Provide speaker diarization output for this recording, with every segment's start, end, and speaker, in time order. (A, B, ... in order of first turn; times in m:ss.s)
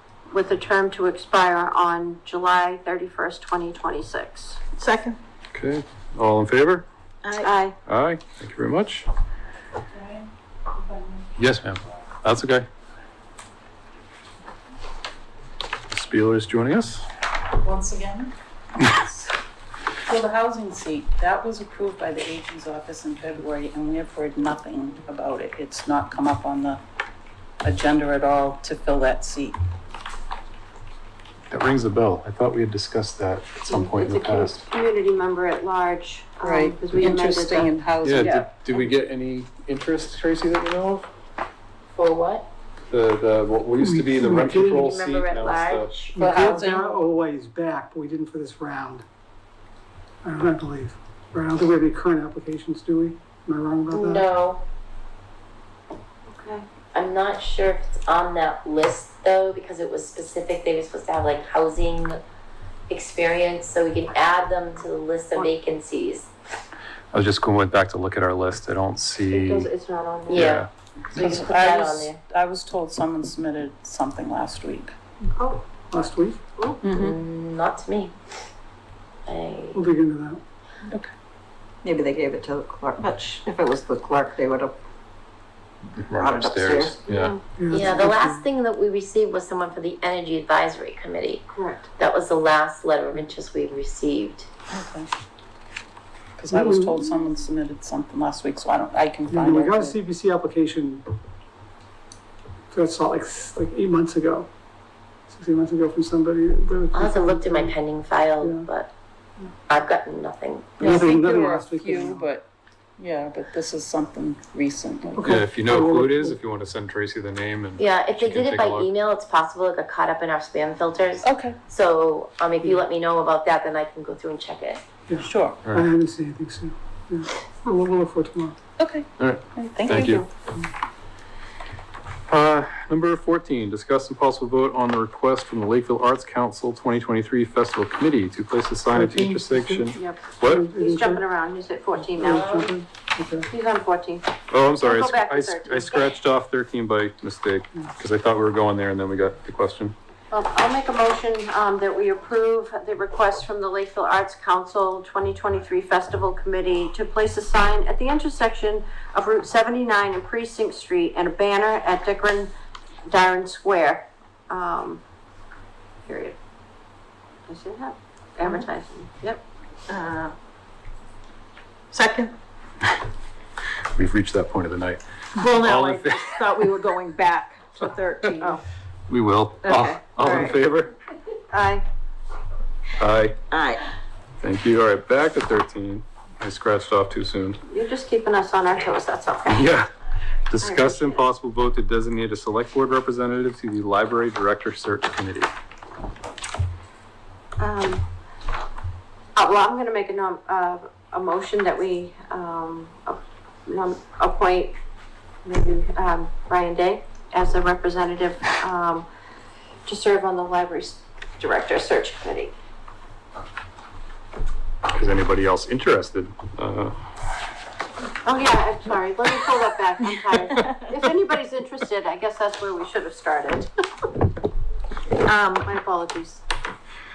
0:00.3-0:04.6 A
0:04.7-0:05.2 B
0:05.5-0:06.8 C
0:07.2-0:07.5 B
0:07.4-0:07.8 A
0:07.9-0:09.1 C
0:09.9-0:10.2 D
0:10.8-0:11.2 D
0:11.4-0:12.7 C
0:15.9-0:17.0 C
0:17.6-0:18.3 D
0:20.0-0:26.8 D
0:27.6-0:29.6 D
0:31.5-0:34.6 C
0:33.6-0:38.4 A
0:36.4-0:38.4 D
0:38.0-0:41.1 C
0:41.9-0:42.5 E
0:42.9-0:46.1 C
0:43.8-0:44.9 F
0:44.7-0:46.5 E
0:46.1-0:49.0 F
0:46.2-0:47.0 D
0:50.2-0:54.2 F
0:53.9-0:54.6 E
0:56.3-0:56.7 A
0:56.9-1:02.2 E
1:02.9-1:06.3 E
1:07.1-1:09.7 C
1:09.3-1:10.6 A
1:10.3-1:12.2 E
1:10.3-1:10.7 C
1:11.1-1:14.9 D
1:15.4-1:15.6 A
1:15.9-1:16.4 F
1:16.6-1:16.8 A
1:16.8-1:17.2 D
1:16.9-1:18.1 E
1:19.2-1:19.8 E
1:19.7-1:20.4 F
1:21.8-1:24.8 B
1:25.9-1:27.4 C
1:26.1-1:27.0 B
1:27.1-1:27.4 A
1:27.6-1:28.4 F
1:27.7-1:31.4 E
1:31.5-1:31.9 A
1:32.0-1:34.5 E
1:34.7-1:35.1 D
1:36.4-1:40.0 D
1:36.5-1:37.1 F
1:39.3-1:41.0 F
1:42.7-1:44.5 F
1:45.3-1:47.8 F
1:46.9-1:48.9 E
1:48.4-1:48.7 F
1:49.7-1:51.0 E
1:50.8-1:52.3 F
1:50.8-1:55.3 D
1:55.2-1:56.4 F
1:55.2-1:58.9 C
1:57.8-2:04.8 E
2:01.2-2:01.6 D
2:05.1-2:08.6 F
2:05.2-2:05.6 D
2:08.8-2:10.3 D
2:09.2-2:10.2 C
2:12.3-2:20.6 C
2:18.9-2:21.2 F
2:19.9-2:22.7 A
2:22.1-2:23.5 F
2:23.5-2:26.1 A
2:24.5-2:30.0 C
2:30.3-2:42.5 A
2:43.0-2:45.0 A
2:46.0-2:46.4 A
2:47.5-2:49.4 A
2:49.9-2:50.3 B
2:51.9-2:52.3 B
2:53.9-2:55.0 C
2:55.3-2:58.6 B
2:55.5-2:56.5 C
2:59.1-3:00.9 C
2:59.6-3:00.3 B
3:00.2-3:00.5 A
3:01.5-3:01.8 A
3:03.0-3:03.4 C
3:03.5-3:03.8 B
3:04.4-3:07.6 C
3:07.7-3:09.7 A
3:09.5-3:09.9 C
3:10.5-3:15.5 C
3:10.6-3:11.2 A
3:17.6-3:18.0 A
3:19.4-3:24.8 A
3:25.4-3:29.1 A
3:29.8-3:32.5 A
3:34.9-3:37.0 C
3:38.2-3:43.7 A
3:45.2-3:45.7 B
3:45.6-3:46.4 A